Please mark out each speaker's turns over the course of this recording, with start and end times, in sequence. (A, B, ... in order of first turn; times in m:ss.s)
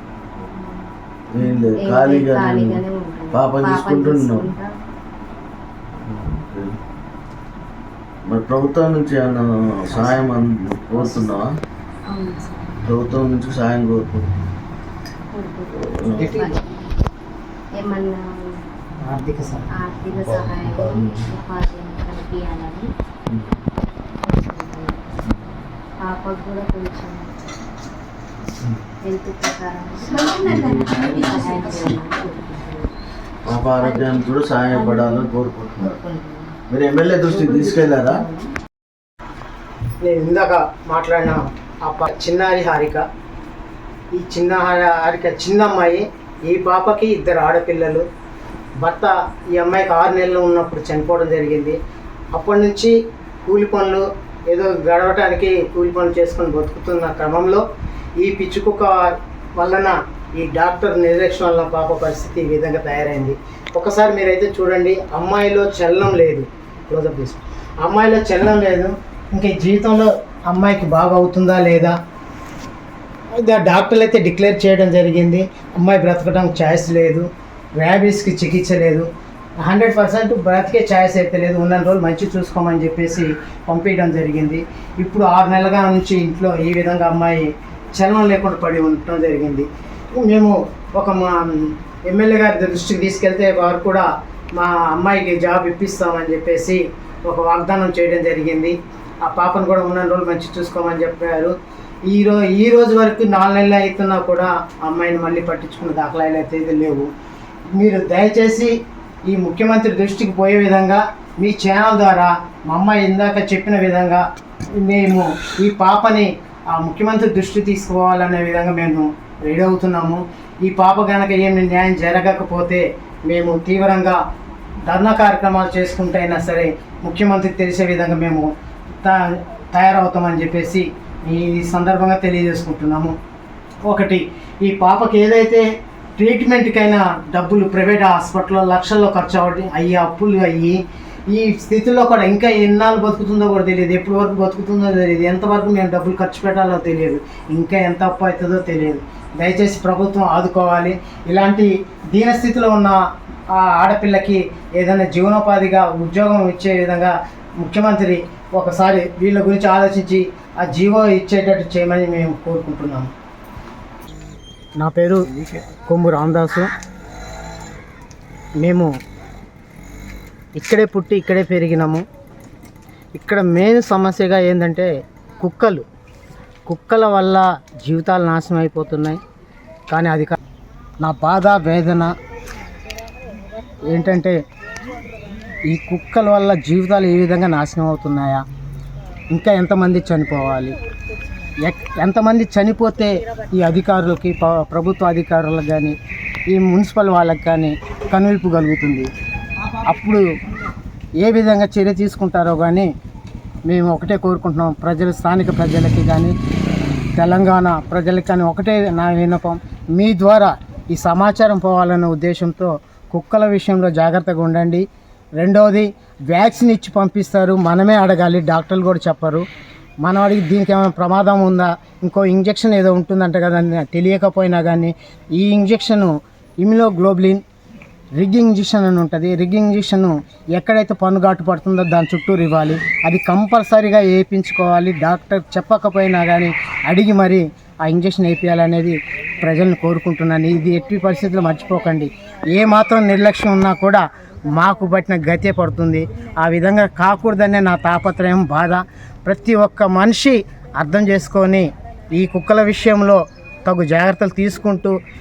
0:00.4-0:04.7 A
0:01.3-0:02.8 B
0:03.3-0:04.5 B
0:06.0-0:06.7 B
0:08.3-0:11.5 B
0:10.0-0:10.3 C
0:12.1-0:12.9 A
0:12.8-0:14.5 B
0:15.3-0:16.8 A
0:15.7-0:16.3 B
0:16.2-0:16.5 C
0:17.8-0:18.6 A
0:19.0-0:19.7 C
0:19.7-0:22.9 A
0:20.8-0:21.3 B
0:23.3-0:23.7 B
0:24.2-0:25.0 A
0:25.3-0:25.6 B
0:26.0-0:27.4 A
0:29.0-0:32.9 A
0:30.4-0:32.0 B
0:33.4-0:36.0 B
0:33.8-0:34.2 A
0:34.7-0:35.2 A
0:35.8-0:36.5 A
0:36.7-0:38.2 B
0:37.3-0:38.5 A
0:40.0-0:43.0 C
0:44.2-0:48.0 C
0:48.8-0:51.8 C
0:52.3-0:57.6 C
0:58.2-1:12.0 C
1:13.4-1:19.1 C
1:19.6-1:29.7 C
1:30.2-1:41.5 C
1:42.1-1:47.1 C
1:47.8-1:48.8 C
1:49.3-1:54.2 C
1:54.8-2:04.2 C
2:04.9-2:08.5 C
2:09.0-2:13.1 C
2:13.9-2:15.7 C
2:16.2-2:33.0 C
2:33.5-2:43.1 C
2:44.8-2:45.2 C
2:45.8-2:46.7 C
2:48.6-2:48.9 C
2:50.6-2:52.0 C
2:53.2-2:54.9 C
2:55.4-2:55.8 C
2:56.7-2:59.2 C
2:59.9-3:00.4 C
3:01.0-3:02.1 C
3:03.9-3:04.4 C
3:05.7-3:08.4 C
3:09.3-3:10.8 C
3:11.6-3:16.0 C
3:16.5-3:19.1 C
3:19.8-3:20.2 C
3:21.2-3:22.9 C
3:23.7-3:26.4 C
3:27.2-3:34.8 C
3:35.4-3:39.4 C
3:40.0-3:47.4 C
3:48.2-4:04.0 C
4:04.6-4:14.9 C